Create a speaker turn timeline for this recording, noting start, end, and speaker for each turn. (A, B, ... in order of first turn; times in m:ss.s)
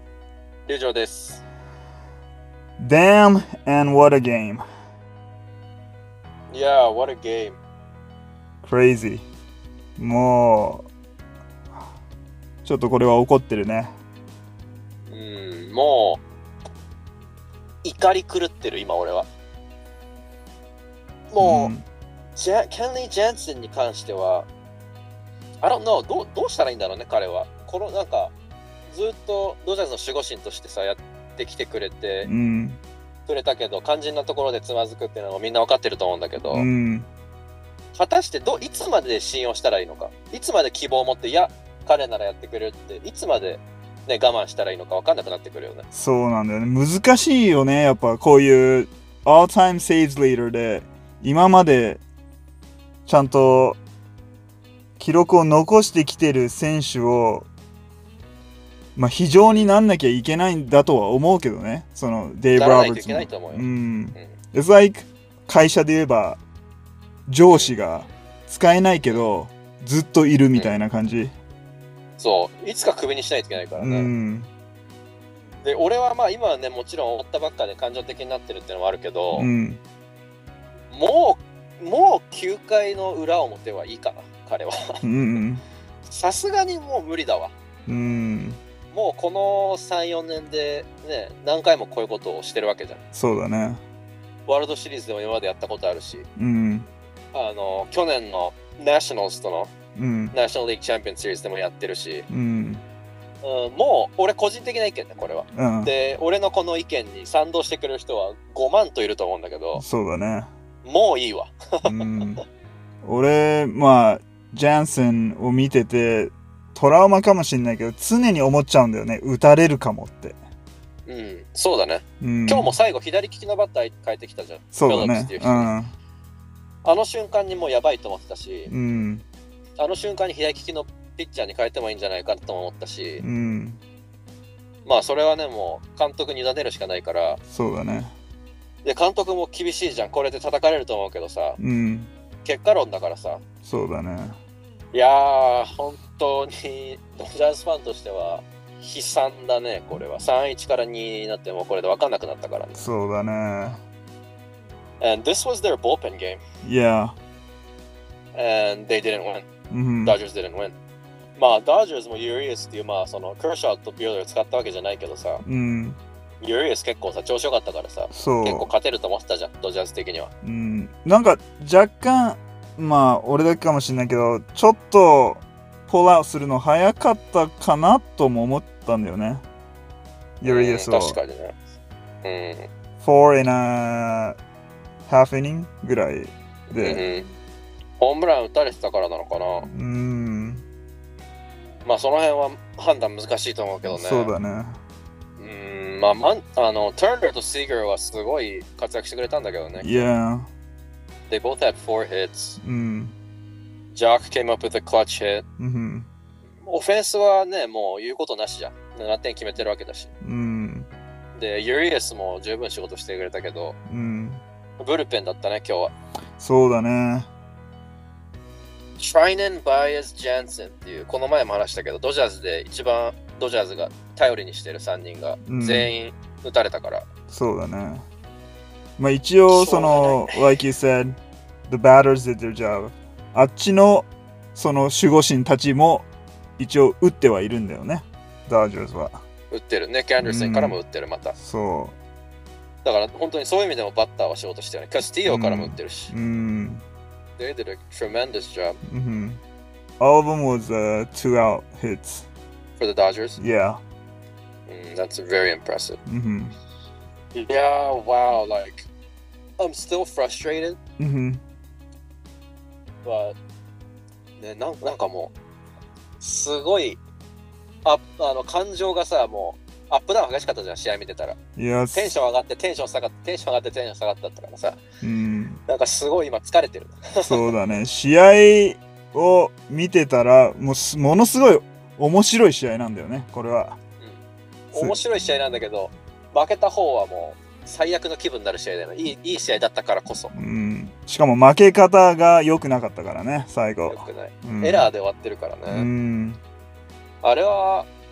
0:00.6-0:01.4 A
0:02.8-0:04.6 B
0:06.5-0:07.6 A
0:08.6-0:09.3 B
0:10.0-0:10.9 B
0:12.6-0:13.9 B
0:15.1-0:16.2 A
0:17.8-0:19.3 A
0:21.3-0:21.7 A
0:21.4-0:21.8 B
0:22.4-0:24.5 A
0:25.6-0:28.3 A
0:28.9-0:32.3 A
0:32.2-0:32.8 B
0:33.3-0:36.7 A
0:36.4-0:37.1 B
0:37.9-0:45.9 A
0:45.9-0:52.0 B
0:53.0-0:53.8 B
0:55.0-0:57.5 B
0:59.0-1:06.4 B
0:59.4-0:59.7 A
1:02.5-1:04.4 A
1:07.3-1:11.3 B
1:07.4-1:07.8 A
1:10.5-1:10.8 A
1:12.2-1:14.1 A
1:13.8-1:14.5 B
1:15.6-1:19.5 A
1:19.3-1:19.8 B
1:20.9-1:24.8 A
1:25.0-1:25.6 B
1:26.0-1:27.5 A
1:27.9-1:28.6 B
1:28.9-1:33.0 A
1:33.1-1:33.8 B
1:34.5-1:36.3 A
1:36.4-1:36.9 B
1:37.3-1:39.7 A
1:40.0-1:40.3 B
1:40.3-1:42.3 A
1:42.3-1:42.8 B
1:43.4-1:49.8 A
1:45.5-1:45.9 B
1:49.7-1:50.5 B
1:50.8-1:52.4 A
1:51.8-1:52.4 B
1:53.0-2:00.4 B
2:01.0-2:05.7 A
2:02.2-2:02.7 B
2:04.7-2:05.9 B
2:06.8-2:08.7 A
2:08.7-2:09.2 B
2:09.8-2:13.2 A
2:13.2-2:13.8 B
2:14.8-2:17.4 A
2:17.5-2:18.1 B
2:18.8-2:21.6 A
2:21.6-2:22.1 B
2:22.4-2:23.4 A
2:23.6-2:24.4 B
2:24.9-2:32.9 A
2:32.8-2:33.8 B
2:35.0-2:36.4 A
2:36.6-2:37.1 B
2:38.3-2:39.4 A
2:39.7-2:40.2 B
2:40.0-2:40.7 A
2:41.4-2:45.4 A
2:45.4-2:46.0 B
2:46.4-2:50.3 A
2:48.1-2:48.7 B
2:50.4-2:59.4 B
3:00.4-3:01.2 B
3:00.4-3:01.5 A
3:02.2-3:02.7 A
3:03.0-3:04.4 B
3:05.1-3:07.1 B
3:06.7-3:07.3 A
3:08.0-3:09.7 A
3:09.7-3:10.6 B
3:11.8-3:14.3 A
3:13.9-3:14.8 B
3:15.4-3:20.1 A
3:19.8-3:20.5 B
3:21.3-3:22.6 A
3:22.6-3:23.1 B
3:23.9-3:25.4 A
3:25.6-3:26.1 B
3:26.6-3:30.1 A
3:30.2-3:30.9 B
3:31.3-3:33.8 A
3:33.9-3:34.4 B
3:34.8-3:35.9 A
3:36.4-3:37.3 B
3:39.0-3:47.1 A
3:45.5-3:45.9 B
3:47.3-3:48.0 B
3:49.0-3:56.1 B
3:49.5-3:50.6 A
3:56.6-3:59.2 B
3:59.5-4:01.4 A
4:00.2-4:00.8 B
4:01.4-4:02.0 B
4:02.8-4:06.1 A
4:05.2-4:06.8 B
4:07.4-4:08.8 A
4:08.8-4:09.4 B
4:10.0-4:12.3 B
4:12.8-4:13.4 A
4:13.4-4:13.8 B
4:14.7-4:16.0 A
4:16.0-4:16.6 B
4:17.3-4:18.9 A
4:19.6-4:20.8 A
4:21.0-4:21.4 B
4:23.0-4:23.4 A
4:24.4-4:25.3 A
4:26.2-4:27.0 A
4:27.8-4:31.4 A
4:31.6-4:32.2 B
4:31.9-4:34.8 A
4:35.0-4:35.6 B
4:35.7-4:37.5 A
4:37.2-4:43.8 B
4:44.7-4:50.3 A
4:50.3-4:54.9 B
4:53.9-4:55.9 A
4:55.7-4:56.4 B
4:57.2-4:57.9 A